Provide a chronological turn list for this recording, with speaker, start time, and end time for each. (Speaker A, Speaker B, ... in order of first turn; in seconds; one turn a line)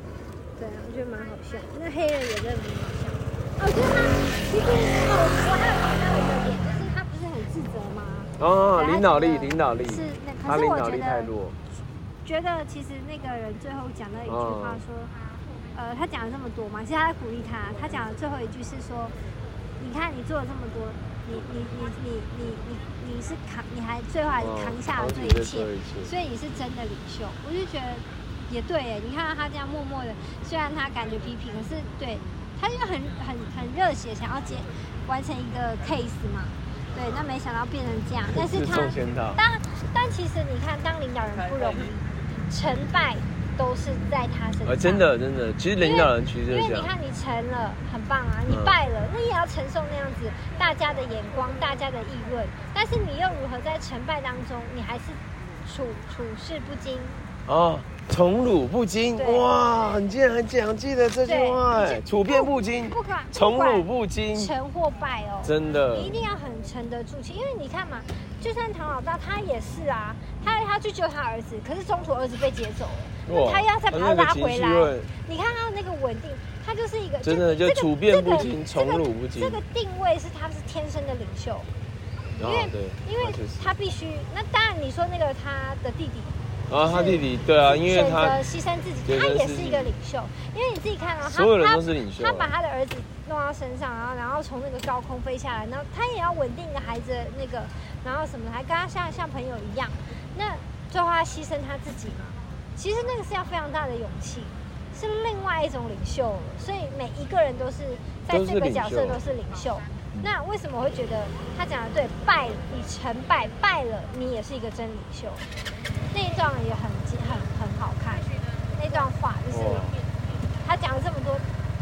Speaker A: 0.6-11.3
Speaker B: 8.4-11.6
Speaker A: 12.2-15.2
Speaker B: 14.2-14.8
Speaker A: 15.7-19.1
Speaker A: 19.8-45.1
Speaker B: 24.4-26.1
Speaker B: 38.3-39.4
Speaker B: 44.6-46.9
Speaker A: 45.8-57.2
Speaker B: 48.5-48.8
Speaker B: 57.5-64.5
Speaker A: 59.1-59.5
Speaker A: 61.2-81.7
Speaker B: 65.4-66.1
Speaker B: 73.2-75.1
Speaker B: 77.2-79.6
Speaker B: 82.4-83.7
Speaker A: 82.4-115.5
Speaker B: 86.7-88.4
Speaker B: 89.0-89.9
Speaker B: 91.2-92.5
Speaker B: 108.3-109.2
Speaker A: 116.1-120.0
Speaker B: 119.5-120.0
Speaker A: 120.6-121.5